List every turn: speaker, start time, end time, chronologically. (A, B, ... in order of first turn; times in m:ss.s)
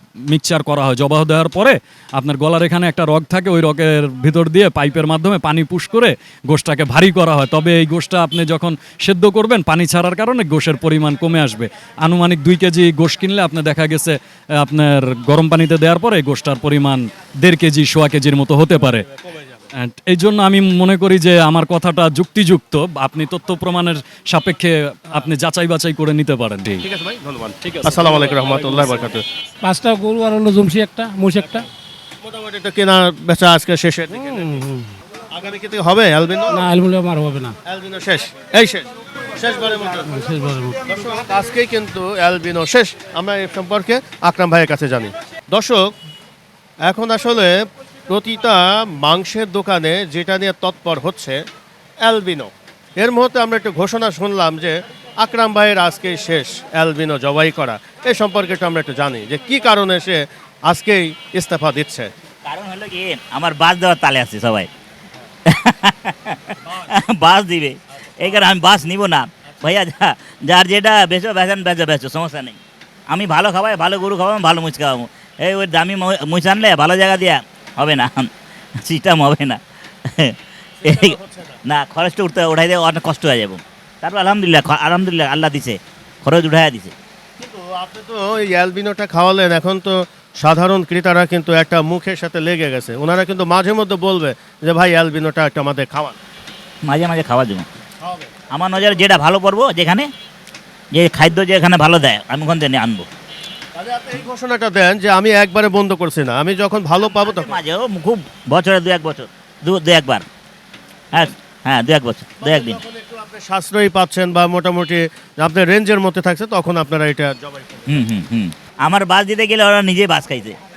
0:00.3-0:19.0 A
0:19.1-0:19.6 B
0:19.8-0:26.8 A
0:26.8-0:29.2 B
0:27.6-0:29.0 A
0:29.6-0:31.6 C
0:32.2-0:34.6 B
0:34.3-0:34.9 C
0:35.3-0:36.6 B
0:36.5-0:37.5 C
0:37.6-0:40.2 B
0:40.0-0:40.8 C
0:40.8-0:45.9 B
0:46.8-0:47.6 B
0:48.1-0:51.4 B
0:52.0-1:02.1 B
1:02.4-1:04.7 D
1:05.4-1:12.6 D
1:13.1-1:26.9 D
1:20.8-1:21.6 B
1:27.4-1:36.2 B
1:36.8-1:37.6 D
1:38.0-1:38.3 B
1:38.5-1:40.1 D
1:40.9-1:43.1 D
1:43.8-1:47.6 B
1:47.1-1:50.2 D
1:51.1-1:52.8 D
1:52.4-1:58.0 B
1:57.9-2:00.6 D